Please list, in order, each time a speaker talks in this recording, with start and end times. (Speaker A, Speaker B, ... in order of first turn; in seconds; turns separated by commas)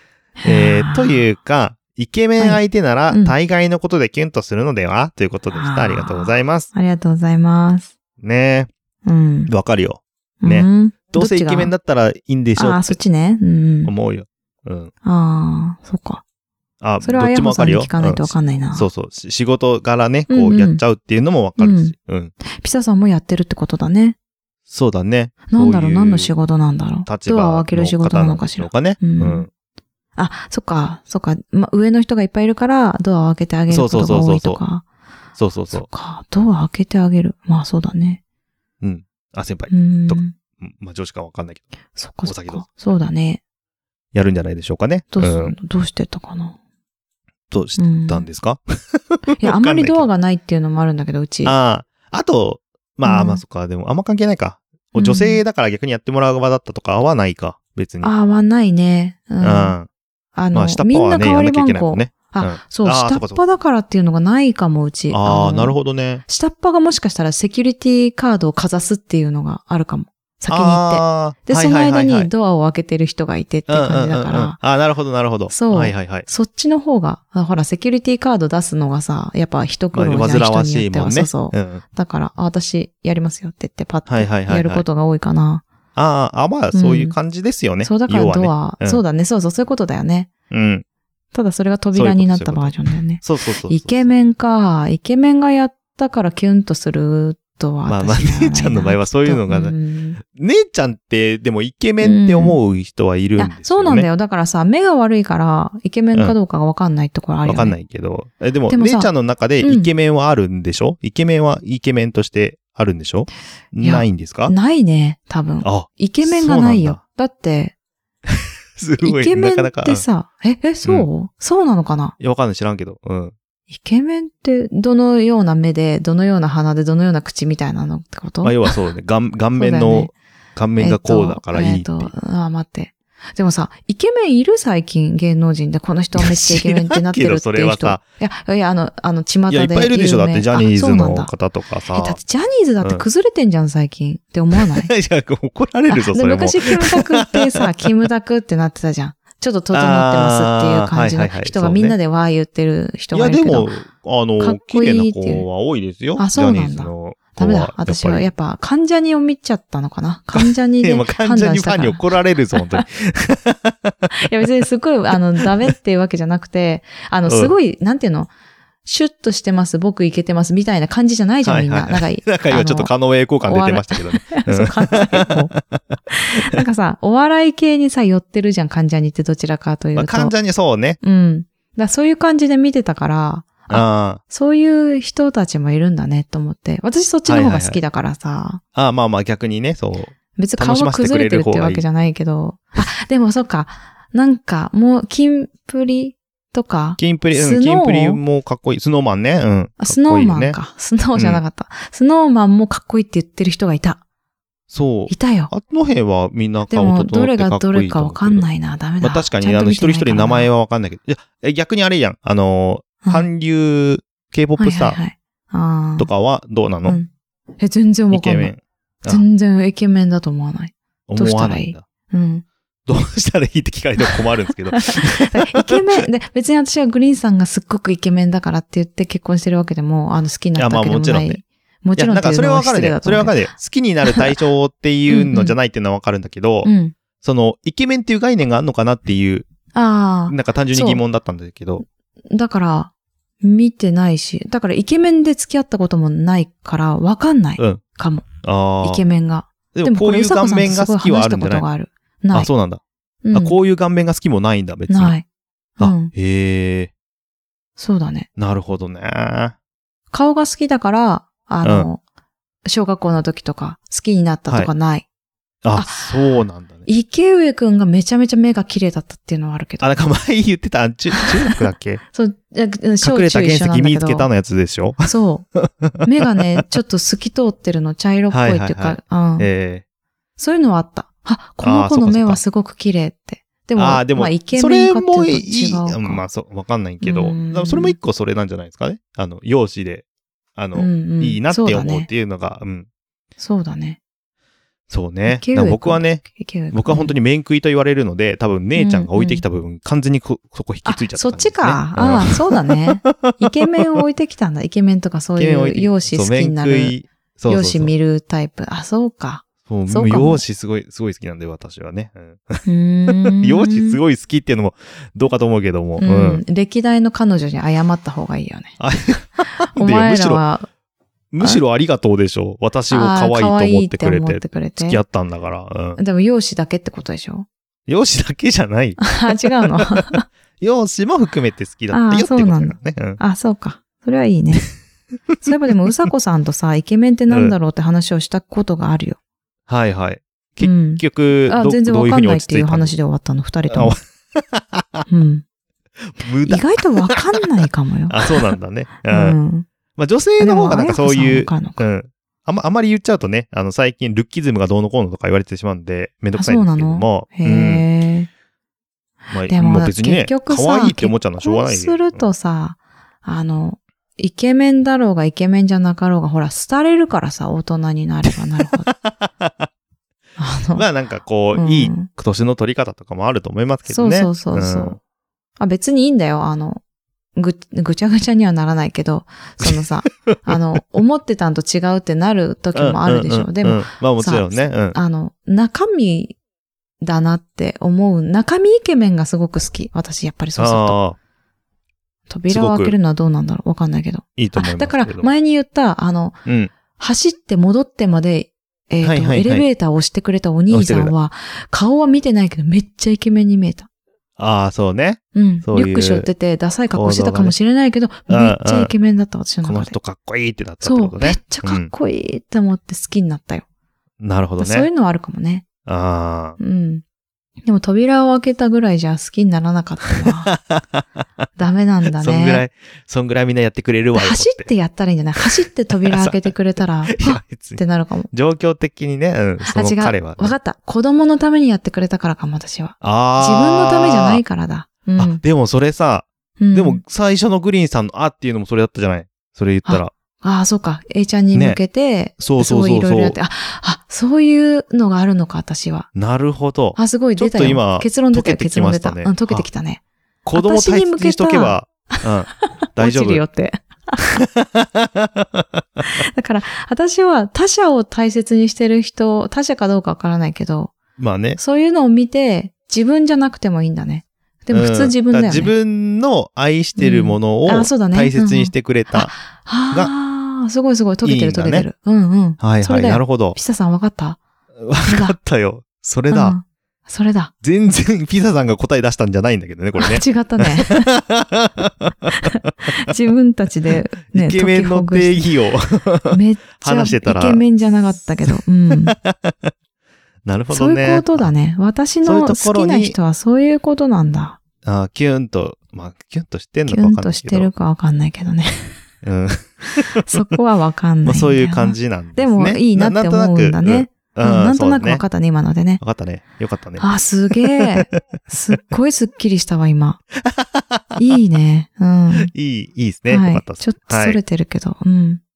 Speaker A: 0.4-1.3, Speaker B: 0.4-6.7, Speaker A: 2.4-3.4, Speaker A: 5.5-7.9, Speaker B: 8.2-8.7, Speaker A: 9.1-9.5, Speaker B: 9.5-13.0, Speaker A: 10.4-11.7, Speaker A: 12.6-13.9, Speaker B: 13.9-14.9, Speaker A: 15.0-16.2, Speaker B: 16.8-22.3, Speaker A: 17.0-18.9, Speaker A: 20.3-20.8, Speaker A: 21.6-21.9, Speaker A: 22.5-24.2, Speaker B: 24.7-26.3, Speaker A: 25.5-29.5, Speaker B: 27.1-29.5, Speaker A: 30.2-34.9, Speaker B: 33.7-34.6, Speaker B: 35.4-35.9, Speaker A: 35.7-38.2, Speaker B: 38.8-41.7, Speaker A: 39.7-40.4, Speaker A: 42.0-43.4, Speaker B: 42.2-42.6, Speaker B: 44.1-45.6, Speaker A: 45.1-46.6, Speaker B: 47.5-50.1, Speaker A: 47.8-48.3, Speaker A: 49.4-51.5, Speaker B: 51.5-58.1, Speaker A: 53.0-53.4, Speaker A: 54.9-55.4, Speaker A: 58.0-59.8, Speaker B: 59.4-59.9, Speaker A: 60.4-65.8, Speaker B: 60.5-63.4, Speaker B: 65.1-66.2, Speaker A: 66.3-74.6, Speaker B: 70.5-72.3, Speaker B: 73.7-76.3, Speaker A: 75.5-85.7, Speaker B: 79.9-81.8, Speaker B: 84.1-84.8, Speaker B: 86.0-89.0, Speaker A: 86.7-87.2, Speaker A: 87.8-90.3, Speaker B: 90.5-90.8, Speaker A: 91.3-100.2, Speaker B: 91.9-94.1, Speaker B: 97.9-104.1, Speaker A: 102.0-102.6, Speaker A: 103.4-107.8, Speaker B: 107.5-114.5, Speaker A: 108.7-109.9, Speaker A: 113.8-117.7, Speaker B: 115.6-117.0, Speaker B: 118.3-120.0, Speaker A: 119.0-122.2, Speaker B: 122.2-123.3, Speaker A: 123.7-128.7, Speaker B: 128.4-132.1, Speaker A: 129.6-130.1, Speaker A: 130.8-141.3, Speaker B: 136.2-138.0, Speaker B: 139.5-142.2, Speaker A: 141.9-144.9, Speaker B: 142.8-143.1, Speaker B: 144.6-147.6, Speaker A: 145.9-153.7, Speaker B: 149.7-152.0, Speaker B: 153.1-158.3, Speaker A: 154.4-155.5, Speaker A: 156.2-162.8, Speaker B: 160.3-164.1, Speaker A: 164.1-168.3, Speaker B: 167.3-167.6, Speaker A: 168.8-172.9, Speaker B: 171.4-175.8, Speaker A: 173.4-175.5, Speaker A: 176.1-180.3, Speaker B: 179.9-181.0, Speaker A: 181.0-188.6, Speaker B: 183.7-184.2, Speaker B: 187.3-187.8, Speaker B: 188.8-191.8, Speaker A: 190.4-198.2, Speaker B: 197.0-200.6, Speaker A: 199.8-204.0, Speaker B: 201.2-201.4, Speaker B: 204.7-208.5, Speaker A: 205.1-205.5, Speaker A: 206.7-210.5, Speaker B: 209.0-215.0, Speaker A: 213.0-213.3, Speaker A: 214.6-216.1, Speaker B: 216.0-217.0, Speaker A: 216.8-218.5, Speaker B: 218.1-219.2, Speaker A: 219.1-222.4, Speaker B: 221.1-221.8, Speaker B: 222.9-225.9, Speaker A: 224.7-233.5, Speaker B: 230.6-231.4, Speaker B: 232.0-239.5, Speaker A: 235.1-235.6, Speaker A: 236.6-236.9, Speaker A: 239.7-241.0, Speaker B: 240.3-241.8, Speaker A: 242.3-242.9, Speaker A: 243.4-248.3, Speaker B: 248.4-249.0, Speaker A: 248.8-252.5, Speaker B: 249.7-251.7, Speaker B: 252.3-252.8, Speaker A: 253.2-253.6, Speaker B: 253.3-255.2, Speaker A: 254.9-255.2, Speaker A: 255.8-256.1, Speaker B: 255.8-256.9, Speaker A: 257.8-258.3, Speaker B: 258.4-259.6, Speaker A: 260.1-262.0, Speaker B: 261.6-261.9, Speaker A: 262.7-265.1, Speaker B: 265.6-266.9, Speaker A: 265.7-266.2, Speaker A: 266.9-269.9, Speaker B: 269.8-272.0, Speaker A: 271.1-271.6, Speaker A: 272.1-274.3, Speaker B: 273.0-276.0, Speaker A: 275.1-275.5, Speaker A: 276.0-279.5, Speaker B: 278.3-279.8, Speaker A: 280.4-286.2, Speaker B: 281.6-282.4, Speaker B: 283.8-290.1, Speaker A: 287.0-288.0, Speaker B: 290.6-292.9, Speaker A: 290.8-292.1, Speaker A: 293.4-294.0, Speaker B: 294.9-304.0, Speaker A: 295.3-297.1, Speaker A: 298.8-299.4, Speaker A: 300.9-307.0, Speaker B: 305.4-307.9, Speaker A: 307.5-310.4, Speaker B: 309.7-316.4, Speaker A: 312.6-314.0, Speaker A: 316.0-318.8, Speaker B: 318.8-320.4, Speaker A: 319.6-320.7, Speaker B: 321.3-326.0, Speaker A: 322.9-325.0, Speaker A: 326.0-327.5, Speaker B: 327.9-330.0, Speaker A: 329.0-330.3, Speaker B: 330.6-333.2, Speaker A: 331.9-334.7, Speaker A: 335.4-339.2, Speaker B: 337.3-337.6, Speaker B: 339.7-342.9, Speaker A: 340.6-344.0, Speaker B: 343.7-345.1, Speaker A: 345.1-345.4, Speaker B: 346.1-347.2, Speaker A: 346.4-348.5, Speaker B: 348.1-349.4, Speaker A: 349.1-349.7, Speaker B: 350.0-357.8, Speaker A: 350.4-351.8, Speaker A: 356.4-358.3, Speaker B: 359.3-362.3, Speaker A: 359.4-368.9, Speaker B: 368.9-369.7, Speaker A: 370.4-370.9, Speaker B: 370.8-375.0, Speaker A: 371.6-372.1, Speaker A: 373.9-375.0, Speaker A: 375.6-376.8, Speaker A: 377.4-386.4, Speaker B: 379.6-380.5, Speaker B: 382.7-385.0, Speaker A: 387.0-391.0, Speaker B: 390.6-391.2, Speaker A: 392.3-396.4, Speaker B: 392.5-392.9, Speaker B: 394.4-395.3, Speaker B: 396.4-396.7, Speaker A: 397.0-403.9, Speaker B: 399.0-399.6, Speaker B: 400.7-401.1, Speaker B: 404.4-406.3, Speaker A: 405.3-409.9, Speaker B: 406.9-407.6, Speaker B: 408.3-408.9, Speaker B: 409.6-411.9, Speaker A: 410.8-413.6, Speaker B: 414.2-414.9, Speaker A: 414.6-415.7, Speaker B: 415.9-416.6, Speaker A: 416.6-417.0, Speaker A: 417.7-420.5, Speaker B: 420.2-421.0, Speaker A: 421.6-422.6, Speaker B: 422.2-424.7, Speaker A: 424.1-428.3, Speaker B: 426.0-426.5, Speaker B: 427.1-430.6, Speaker A: 429.6-435.4, Speaker B: 433.0-434.4, Speaker B: 435.2-440.1, Speaker A: 436.6-437.0, Speaker A: 439.9-446.1, Speaker B: 441.5-441.8, Speaker B: 442.4-443.4, Speaker B: 446.1-449.7, Speaker A: 447.0-450.0, Speaker B: 450.5-453.4, Speaker A: 450.6-452.2, Speaker A: 452.9-454.4, Speaker B: 454.4-456.0, Speaker A: 456.0-460.9, Speaker B: 461.2-461.6, Speaker A: 461.6-465.7, Speaker B: 464.7-469.3, Speaker A: 467.0-474.4, Speaker B: 471.2-471.9, Speaker B: 472.6-473.6, Speaker B: 474.8-476.6, Speaker A: 475.0-475.4, Speaker A: 476.3-477.5, Speaker B: 477.6-482.9, Speaker A: 480.0-481.2, Speaker A: 482.3-485.5, Speaker B: 484.3-487.6, Speaker A: 486.3-489.1, Speaker B: 488.9-489.7, Speaker B: 490.4-491.5, Speaker A: 490.7-494.6, Speaker B: 492.2-493.2, Speaker B: 494.8-497.7, Speaker A: 496.9-499.0, Speaker B: 499.2-500.4, Speaker A: 499.9-506.0, Speaker B: 501.3-505.2, Speaker B: 506.0-507.1, Speaker A: 507.0-510.2, Speaker B: 507.6-508.2, Speaker B: 510.4-511.2, Speaker A: 511.2-512.5, Speaker B: 512.4-514.4, Speaker A: 513.3-515.4